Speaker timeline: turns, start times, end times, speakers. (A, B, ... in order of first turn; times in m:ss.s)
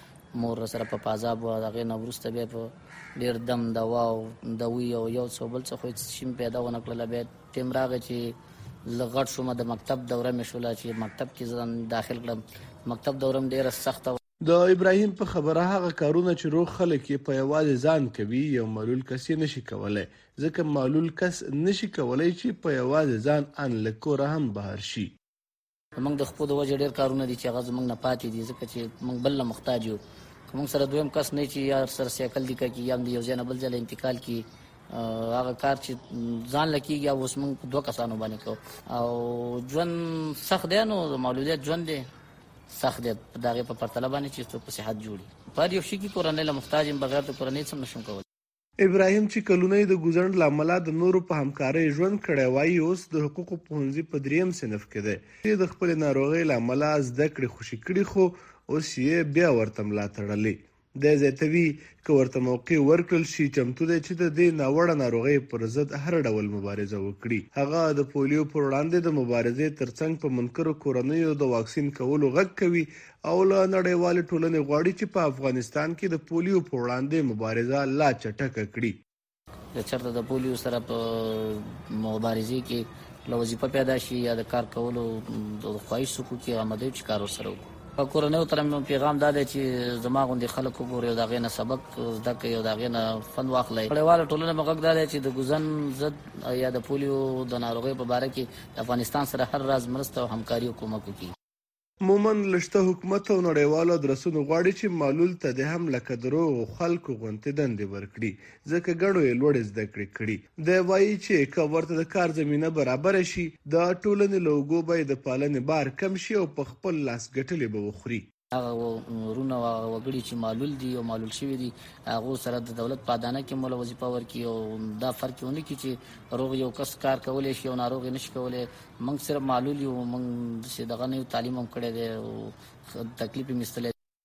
0:00.3-0:14.2 A
0:14.4-0:25.1 B
0:26.0-0:42.1 A
0:42.7-0:48.2 A
0:48.8-1:18.9 B
1:19.7-1:41.3 A
1:42.0-1:58.2 B
1:58.5-2:13.9 A